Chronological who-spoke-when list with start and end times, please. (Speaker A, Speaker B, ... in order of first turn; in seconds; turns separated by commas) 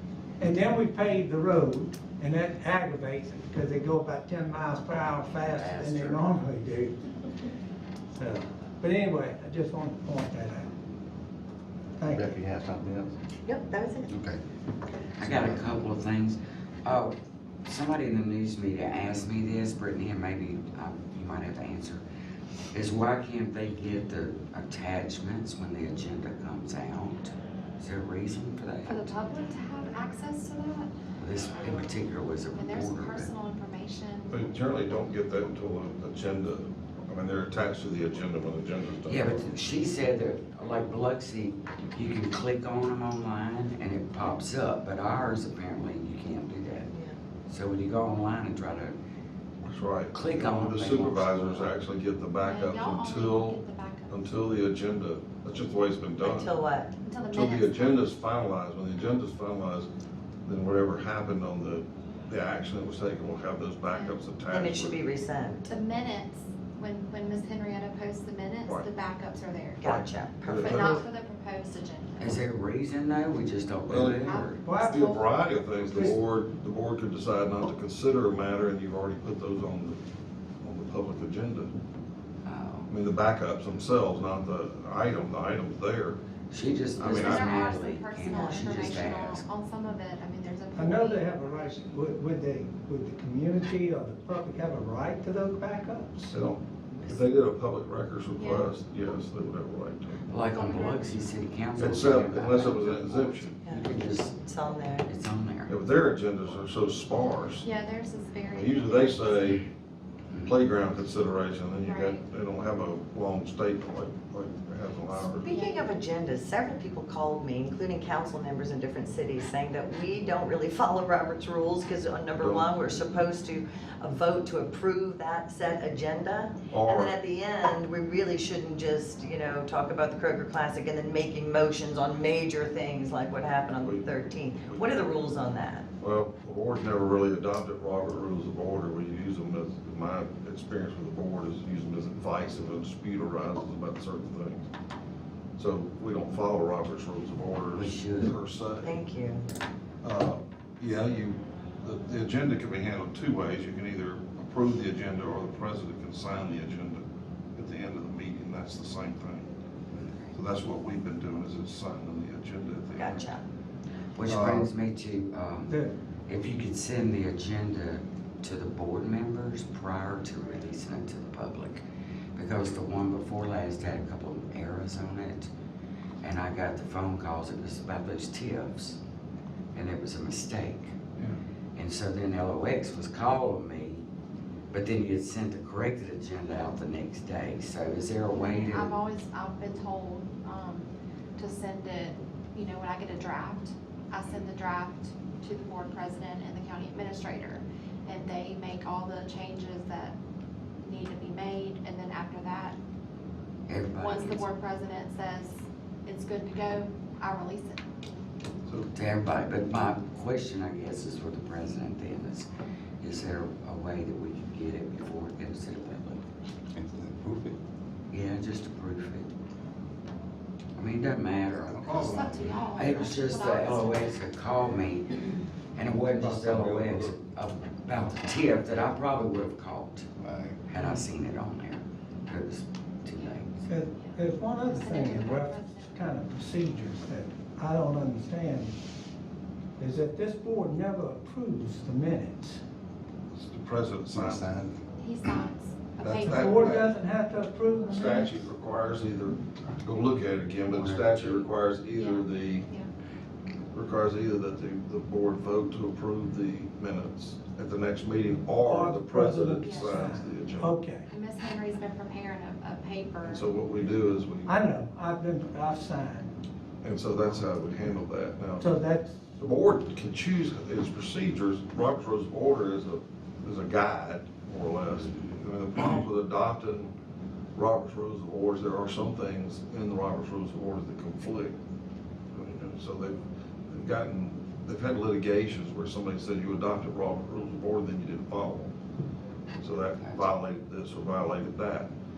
Speaker A: 0.4-7.0, Speaker B: 5.3-6.2, Speaker A: 8.1-10.7, Speaker A: 12.0-12.4, Speaker C: 12.1-13.2, Speaker D: 13.4-14.1, Speaker C: 14.1-14.4, Speaker B: 15.2-22.0, Speaker C: 15.2-15.7, Speaker B: 22.7-29.1, Speaker E: 28.9-30.9, Speaker B: 31.2-33.3, Speaker E: 32.5-34.4, Speaker F: 34.3-39.5, Speaker B: 39.1-46.9, Speaker B: 47.5-49.0, Speaker F: 49.6-56.6, Speaker B: 50.1-51.7, Speaker E: 52.4-54.4, Speaker D: 56.2-56.9, Speaker E: 57.0-58.1, Speaker F: 57.3-59.9, Speaker F: 60.5-65.0, Speaker E: 63.9-64.2, Speaker D: 64.5-65.7, Speaker E: 65.7-70.0, Speaker D: 69.8-71.0, Speaker F: 70.5-71.0, Speaker E: 70.6-72.4, Speaker B: 72.2-74.6, Speaker F: 73.9-80.0, Speaker E: 74.2-75.3, Speaker A: 74.6-75.2, Speaker A: 75.8-76.2, Speaker F: 80.6-81.7, Speaker B: 82.5-82.9, Speaker F: 82.9-86.2, Speaker B: 86.5-89.5, Speaker F: 87.0-87.6, Speaker E: 87.0-91.9, Speaker D: 88.3-89.0, Speaker A: 90.8-96.1, Speaker F: 96.2-100.2, Speaker E: 98.4-98.7, Speaker B: 100.3-104.3, Speaker E: 100.5-101.3, Speaker F: 101.8-103.6, Speaker D: 104.4-105.1, Speaker B: 105.0-105.8, Speaker F: 105.7-107.7, Speaker E: 107.6-109.6, Speaker F: 108.5-109.6, Speaker F: 110.4-115.5, Speaker E: 111.8-112.2, Speaker E: 115.4-115.9, Speaker D: 115.4-135.9, Speaker F: 122.4-122.7, Speaker F: 126.7-127.2, Speaker F: 133.8-134.1, Speaker F: 134.6-135.2, Speaker F: 136.0-144.7, Speaker F: 145.6-148.9, Speaker B: 147.8-148.3, Speaker D: 148.8-149.4, Speaker F: 150.0-157.0, Speaker F: 157.6-159.5, Speaker B: 160.0-160.3, Speaker F: 160.3-163.3, Speaker D: 162.9-163.4, Speaker B: 164.2-171.8, Speaker F: 164.3-164.7, Speaker A: 165.7-165.9, Speaker B: 172.4-175.5, Speaker B: 176.2-179.0, Speaker B: 179.7-180.9, Speaker B: 181.8-184.0, Speaker B: 184.7-189.0, Speaker E: 188.3-200.2, Speaker E: 200.8-202.8, Speaker B: 203.7-204.5, Speaker E: 204.0-207.8, Speaker B: 208.9-212.5, Speaker B: 213.0-216.2, Speaker C: 216.8-217.6, Speaker B: 218.1-219.3, Speaker B: 220.8-225.2, Speaker C: 221.7-222.7, Speaker E: 222.1-224.1, Speaker B: 225.8-230.1, Speaker C: 226.2-227.1, Speaker C: 230.2-230.6, Speaker B: 230.7-233.7, Speaker A: 233.7-238.8, Speaker E: 233.9-236.0, Speaker A: 239.8-242.6, Speaker F: 243.3-244.6, Speaker C: 244.1-244.8, Speaker E: 245.0-246.8, Speaker F: 246.0-246.9, Speaker A: 246.3-248.4, Speaker F: 247.9-252.7, Speaker B: 250.7-251.4, Speaker E: 252.0-252.9, Speaker F: 253.7-260.8, Speaker A: 258.6-261.1, Speaker E: 259.6-260.0, Speaker E: 261.1-263.5, Speaker F: 263.2-264.6, Speaker A: 264.5-266.3, Speaker F: 266.8-268.7, Speaker A: 268.6-269.2, Speaker F: 269.4-276.9, Speaker F: 277.6-281.6, Speaker F: 282.3-283.1, Speaker F: 283.7-288.7, Speaker F: 289.6-291.9